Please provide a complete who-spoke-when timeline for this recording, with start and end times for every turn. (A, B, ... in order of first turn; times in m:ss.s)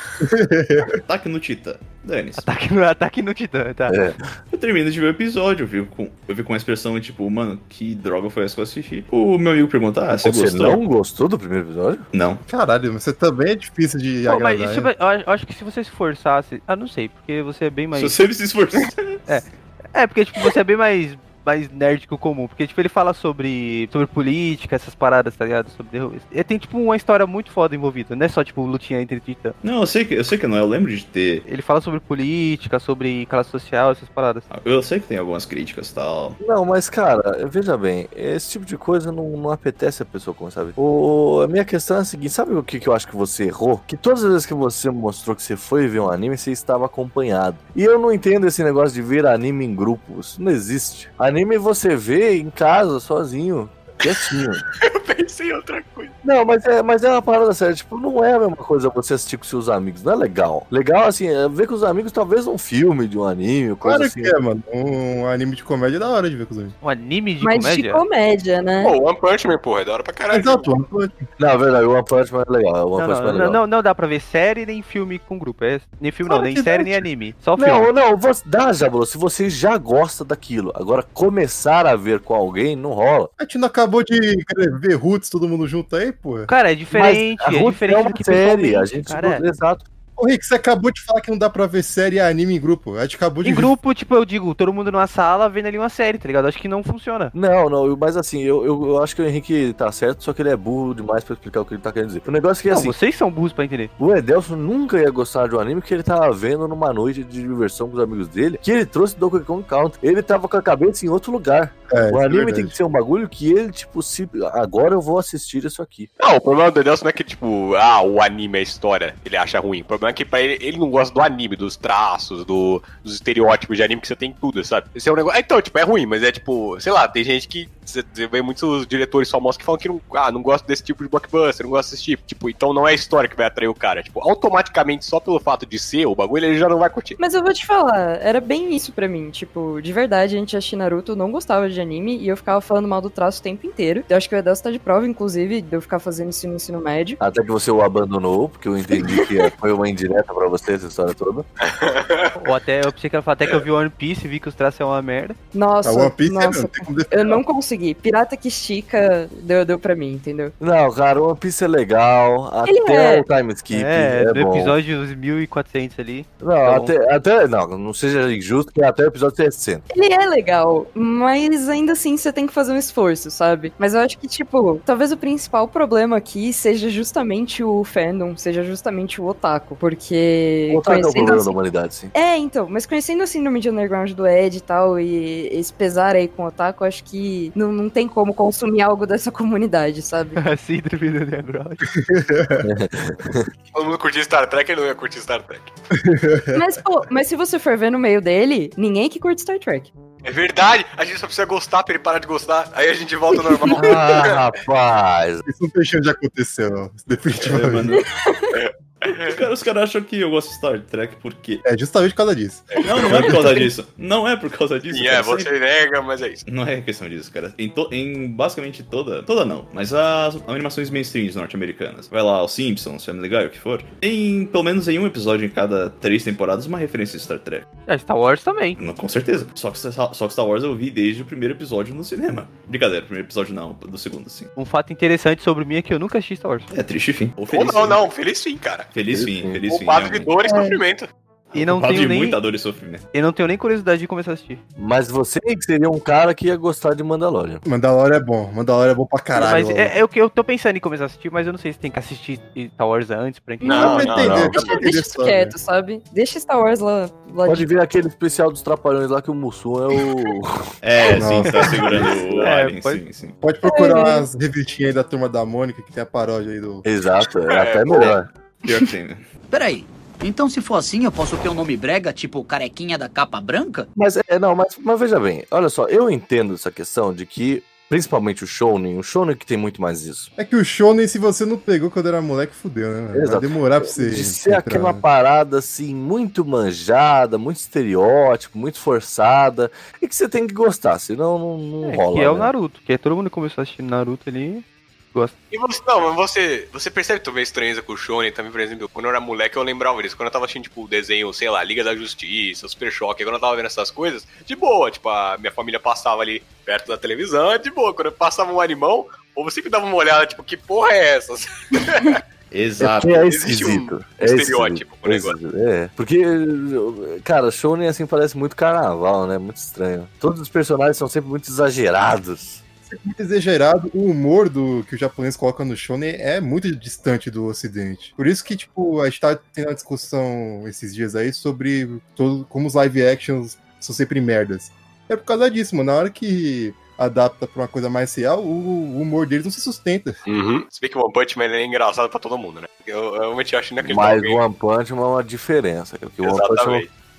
0:00.2-0:01.0 A
0:01.0-0:02.4 B
0:02.4-0:04.0 C
0:03.9-0:04.3 D
0:04.5-0:10.8 B
0:10.2-0:12.0 D
0:12.1-0:12.4 B
0:12.5-0:14.9 A
0:14.3-0:18.1 C
0:17.9-0:19.2 B
0:19.3-0:29.5 C
0:29.6-0:31.4 B
0:31.4-0:34.4 C
0:34.5-0:36.4 B
0:36.4-0:54.6 D
0:54.7-0:56.1 E
0:56.2-1:04.4 D
1:03.8-1:06.7 A
1:06.8-1:08.0 C
1:07.4-1:08.9 F
1:08.8-1:10.7 E
1:10.3-1:11.3 A
1:11.4-1:13.6 D
1:12.9-1:17.9 C
1:16.2-1:17.0 A
1:17.6-1:23.3 D
1:23.4-1:26.5 A
1:26.5-1:29.4 C
1:26.9-1:29.8 D
1:30.2-1:33.7 A
1:33.4-1:37.3 C
1:37.3-1:43.0 D
1:42.7-1:43.9 C
1:44.0-1:56.1 D
1:51.9-1:52.7 A
1:56.2-2:17.2 E
2:17.2-2:27.2 F
2:27.2-2:31.4 D
2:31.7-2:32.3 E
2:32.4-2:35.4 C
2:35.5-2:40.5 F
2:35.8-2:37.4 A
2:40.6-2:44.8 D
2:42.6-2:43.2 F
2:43.7-2:46.9 C
2:46.4-2:49.8 D
2:49.9-3:01.6 F
3:00.7-3:02.1 D
3:02.1-3:10.4 F
3:10.4-3:11.8 C
3:11.9-3:12.7 A
3:12.6-3:13.5 D
3:13.7-3:15.7 E
3:15.9-3:16.6 A
3:16.5-3:19.9 F
3:20.2-3:24.4 E
3:23.3-3:23.8 F
3:23.7-3:25.4 D
3:25.4-3:27.9 A
3:27.4-3:28.0 B
3:27.9-3:28.6 F
3:28.5-3:29.4 E
3:29.0-3:31.6 B
3:31.6-3:33.7 A
3:32.7-3:33.4 E
3:32.8-3:35.5 B
3:34.8-3:36.4 E
3:36.5-3:47.6 B
3:47.9-3:48.8 C
3:48.8-3:54.5 B
3:54.6-3:56.7 C
3:56.7-3:58.0 B
3:57.5-3:58.9 E
3:58.9-4:00.3 B
3:59.1-3:59.6 D
3:59.7-4:01.1 E
4:00.5-4:00.7 F
4:01.5-4:03.0 B
4:01.5-4:02.4 C
4:03.1-4:04.6 C
4:04.8-4:07.6 D
4:07.6-4:09.9 A
4:09.3-4:14.1 C
4:13.6-4:17.7 F
4:13.6-4:14.9 E
4:13.7-4:15.6 A
4:14.2-4:14.6 D
4:17.4-4:20.7 D
4:20.8-4:23.4 B
4:21.2-4:22.1 A
4:22.0-4:22.3 D
4:22.3-4:23.0 C
4:23.4-4:26.8 A
4:23.6-4:24.2 F
4:26.8-4:28.3 D
4:27.5-4:28.2 E
4:28.6-4:29.2 B
4:29.5-4:33.9 G
4:34.0-4:40.3 D
4:40.4-4:45.0 A
4:43.1-4:52.5 D
4:51.8-4:55.3 C
4:55.5-5:12.2 E
5:12.5-5:13.3 B
5:12.8-5:22.6 D
5:13.2-5:15.4 E
5:22.9-5:40.2 A
5:40.2-5:44.4 E
5:43.8-5:46.8 D
5:46.2-5:46.9 E